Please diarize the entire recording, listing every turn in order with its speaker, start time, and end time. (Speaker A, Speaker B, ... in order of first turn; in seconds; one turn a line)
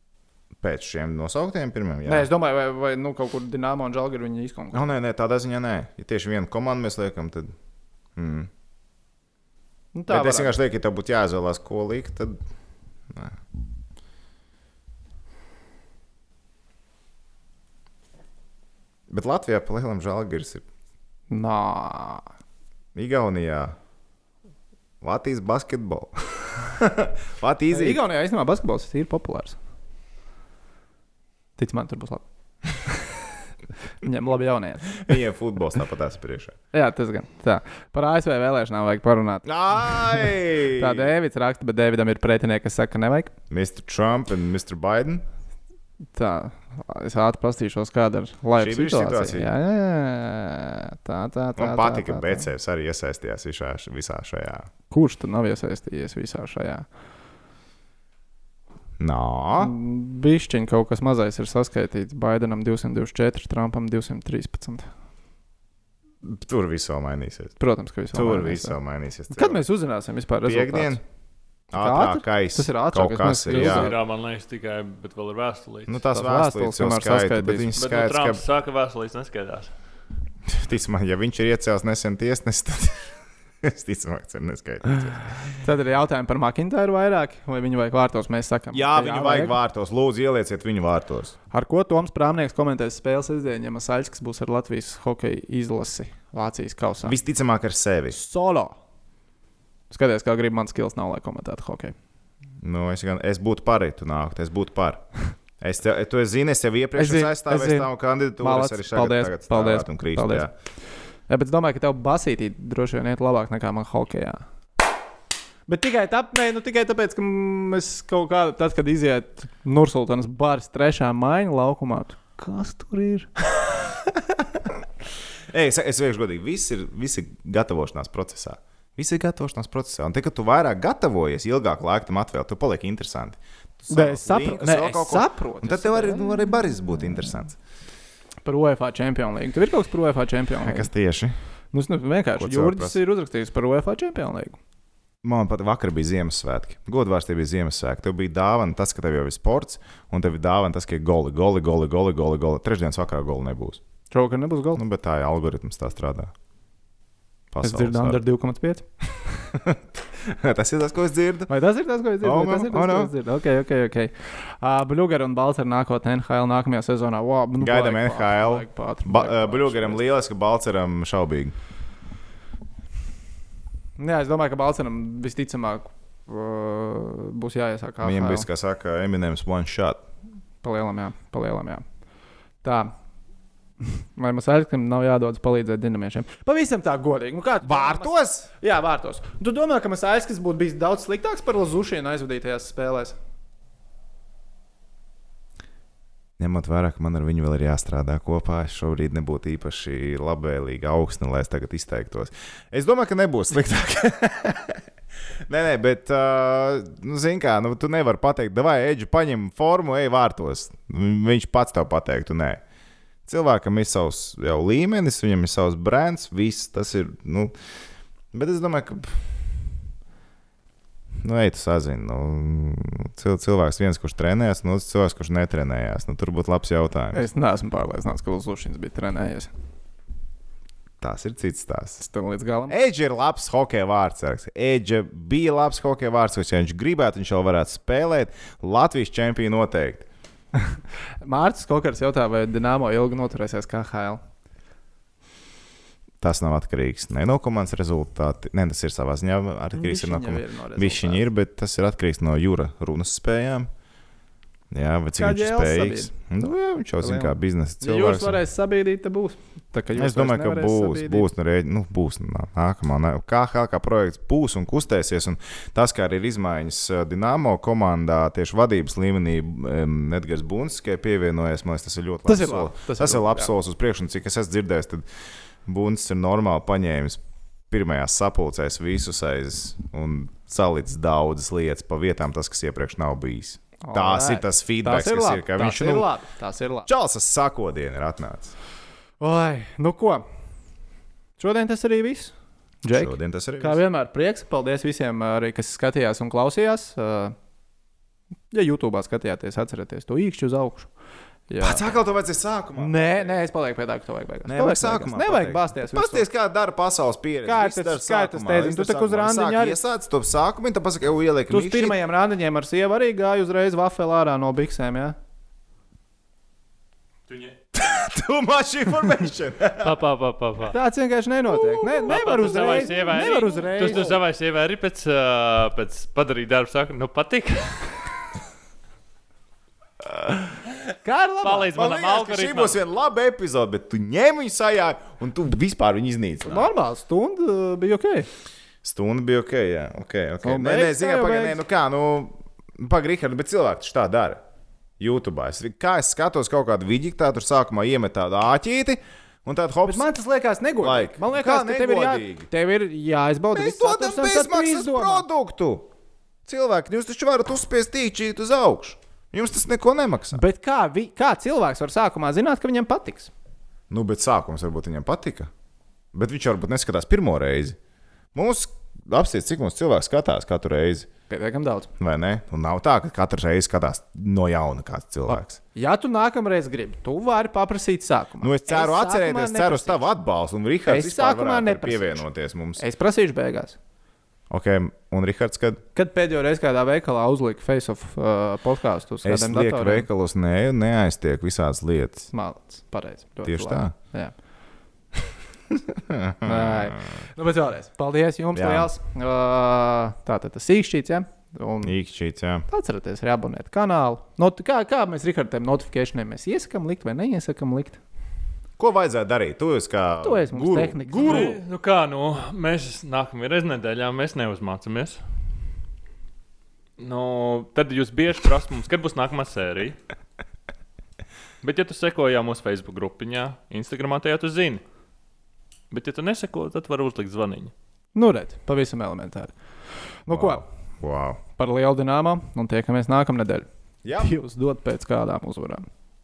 Speaker A: 0.6-2.3
Speaker B: 2.0-4.9
Speaker A: 4.7-7.5
Speaker A: 8.2-8.5
Speaker B: 9.9-10.6
Speaker A: 10.1-12.4
Speaker A: 13.1-13.4
Speaker A: 19.1-20.6
Speaker B: 21.3-22.2
Speaker A: 22.9-23.8
Speaker A: 25.0-28.0
Speaker B: 27.7-29.6
Speaker B: 31.6-32.2
Speaker B: 32.8-33.0
Speaker B: 34.0-35.2
Speaker A: 34.9-36.5
Speaker B: 36.7-43.3
Speaker A: 39.5-41.1
Speaker A: 43.5-45.2
Speaker B: 46.1-52.5
Speaker A: 48.6-49.5
Speaker A: 51.6-54.7
Speaker B: 54.9-56.9
Speaker A: 59.0-59.7
Speaker B: 59.6-64.9
Speaker A: 66.2-67.5
Speaker B: 67.6-68.8
Speaker A: 68.1-69.6
Speaker B: 69.3-71.0
Speaker A: 70.5-71.0
Speaker A: 71.7-73.9
Speaker B: 71.7-73.9
Speaker C: 73.5-76.0
Speaker A: 75.9-78.4
Speaker B: 76.1-77.7
Speaker C: 77.8-79.7
Speaker A: 80.5-85.5
Speaker B: 85.5-89.6
Speaker A: 88.7-91.3
Speaker B: 91.5-97.2
Speaker A: 97.0-98.2
Speaker B: 98.1-98.8
Speaker B: 99.9-102.0
Speaker A: 102.6-105.1
Speaker A: 105.6-110.5
Speaker B: 107.0-110.5
Speaker B: 111.3-114.4
Speaker B: 115.7-123.3
Speaker A: 123.7-124.6
Speaker A: 125.5-137.6
Speaker B: 133.9-136.4
Speaker B: 138.4-140.9
Speaker A: 140.6-141.4
Speaker B: 141.7-144.6
Speaker A: 142.4-143.0
Speaker A: 145.2-153.8
Speaker B: 154.1-154.8
Speaker A: 154.8-156.3
Speaker A: 157.5-158.2
Speaker B: 157.6-158.9
Speaker A: 159.5-161.5
Speaker B: 161.5-170.0
Speaker A: 162.2-163.1
Speaker A: 167.6-171.6
Speaker B: 174.0-178.5
Speaker A: 178.0-180.0
Speaker B: 180.6-181.8
Speaker B: 182.6-182.9
Speaker B: 183.8-193.2
Speaker A: 187.6-188.5
Speaker A: 196.4-204.8
Speaker A: 205.5-212.6
Speaker A: 213.3-217.5
Speaker A: 218.3-219.5
Speaker A: 221.2-227.2
Speaker B: 227.1-229.5
Speaker A: 231.0-232.0
Speaker B: 232.0-232.8
Speaker A: 232.7-240.1
Speaker B: 240.5-244.2
Speaker A: 246.2-253.7
Speaker B: 249.8-251.2
Speaker A: 254.7-258.4
Speaker B: 255.2-256.1
Speaker B: 257.0-261.3
Speaker A: 259.9-275.1
Speaker B: 272.3-273.5
Speaker A: 275.6-286.1
Speaker B: 283.8-286.9
Speaker A: 286.9-288.5
Speaker B: 289.2-290.2
Speaker B: 291.4-297.4
Speaker A: 292.9-293.8
Speaker B: 298.5-300.9
Speaker B: 301.5-302.0
Speaker A: 301.6-303.4
Speaker B: 302.8-306.3
Speaker A: 304.5-312.0
Speaker B: 307.4-309.8
Speaker B: 311.5-315.2
Speaker C: 317.3-317.6
Speaker A: 317.7-320.0
Speaker C: 319.8-320.8
Speaker B: 320.7-324.2
Speaker A: 321.5-323.2
Speaker C: 322.1-328.1
Speaker A: 323.8-324.1
Speaker A: 330.3-330.7
Speaker B: 331.0-331.7
Speaker C: 331.4-332.8
Speaker A: 331.8-336.7
Speaker B: 336.4-338.3
Speaker A: 338.8-344.4
Speaker B: 340.4-341.6
Speaker A: 345.0-350.1
Speaker B: 349.9-355.2
Speaker A: 350.8-352.5
Speaker A: 353.5-355.9
Speaker A: 356.5-360.4
Speaker B: 360.3-363.3
Speaker A: 363.9-365.5
Speaker A: 366.1-367.8
Speaker A: 368.3-371.1
Speaker B: 371.3-371.9
Speaker A: 372.0-375.6
Speaker B: 375.3-380.0
Speaker A: 378.4-382.8
Speaker B: 380.9-382.2
Speaker B: 382.8-383.8
Speaker A: 384.5-385.8
Speaker B: 385.9-390.1
Speaker A: 389.2-392.3
Speaker B: 392.3-394.3
Speaker A: 393.4-393.9
Speaker A: 395.7-397.1
Speaker B: 396.4-401.9
Speaker A: 398.6-398.9
Speaker A: 401.8-402.7
Speaker B: 402.7-408.0
Speaker A: 408.8-411.6
Speaker B: 410.2-411.5
Speaker C: 411.2-415.2
Speaker C: 417.0-420.0
Speaker C: 421.6-424.8
Speaker C: 425.9-427.7
Speaker B: 428.1-429.6
Speaker B: 430.2-430.6
Speaker A: 430.3-431.4
Speaker B: 431.6-435.9
Speaker A: 434.0-434.3